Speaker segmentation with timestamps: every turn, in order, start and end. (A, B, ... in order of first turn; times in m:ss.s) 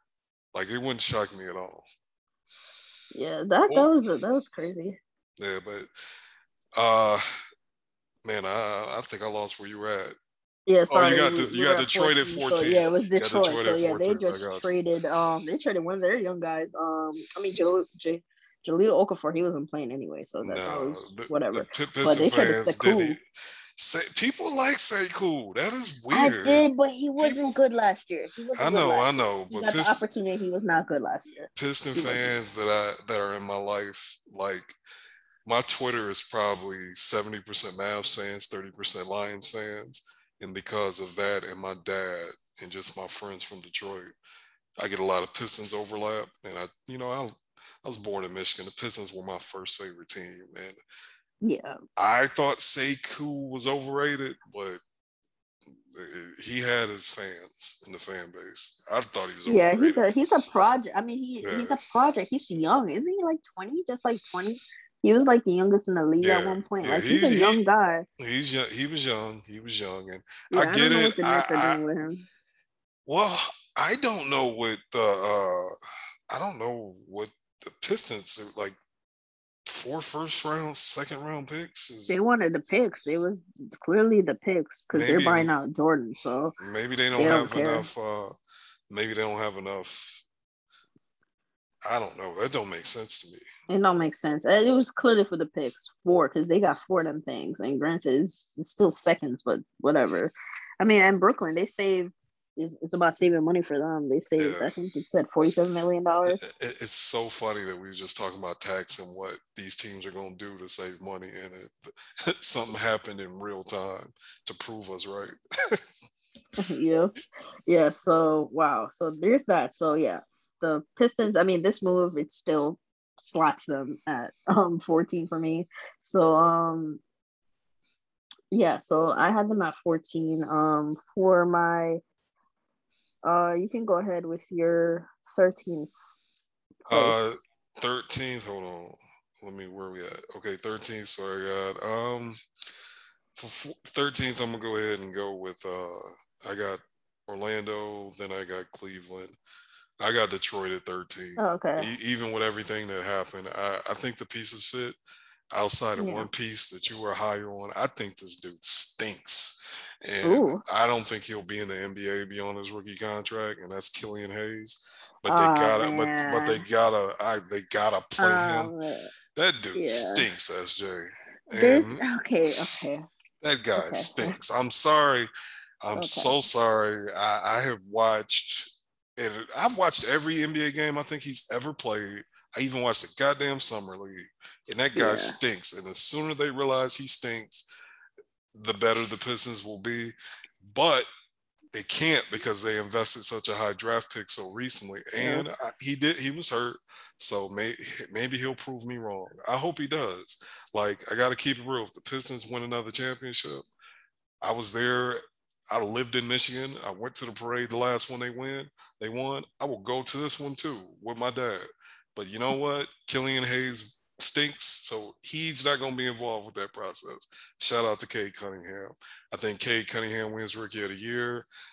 0:00.5-0:01.9 A
0:03.1-0:05.0 B
0:03.7-0:03.9 A
0:05.4-0:05.9 A
0:06.8-0:07.2 A
0:08.2-0:10.2 A
0:10.7-0:23.2 B
0:10.9-0:14.7 A
0:20.4-0:23.2 A
0:23.8-0:26.6 A
0:26.1-0:32.3 B
0:27.2-0:27.6 A
0:28.6-0:30.1 A
0:31.6-0:34.8 A
0:35.4-0:44.1 A
0:44.8-0:50.8 A
0:51.4-0:51.8 B
0:52.0-0:54.8 A
0:55.8-1:00.0 A
0:59.5-1:08.1 B
1:01.4-1:01.8 A
1:06.2-1:07.6 A
1:08.2-1:11.8 A
1:10.5-1:12.3 B
1:13.1-1:15.7 A
1:16.3-1:18.8 A
1:19.6-1:22.2 A
1:22.1-1:26.6 B
1:24.9-1:25.5 A
1:26.6-1:28.3 A
1:27.2-1:27.9 B
1:28.9-1:30.2 A
1:31.8-1:33.5 A
1:33.7-1:46.4 B
1:44.4-1:44.7 A
1:46.3-1:55.8 A
1:56.6-1:57.2 B
1:57.7-2:07.0 B
2:08.5-2:12.0 B
2:13.2-2:15.9 B
2:16.9-2:22.4 A
2:16.9-2:17.2 B
2:23.4-2:29.4 A
2:30.0-2:35.0 A
2:31.4-2:31.9 B
2:35.5-2:48.7 A
2:36.0-2:36.3 B
2:40.2-2:40.6 B
2:45.3-2:46.6 B
2:48.2-2:49.1 B
2:49.4-2:52.0 A
2:49.7-2:50.2 B
2:51.5-2:53.1 B
2:53.4-2:55.3 A
2:53.8-2:54.4 B
2:55.8-3:07.7 A
2:55.9-2:56.3 B
3:05.0-3:05.4 B
3:08.5-3:11.1 A
3:11.7-3:23.6 A
3:15.2-3:15.5 B
3:24.4-3:31.6 A
3:32.2-3:41.5 A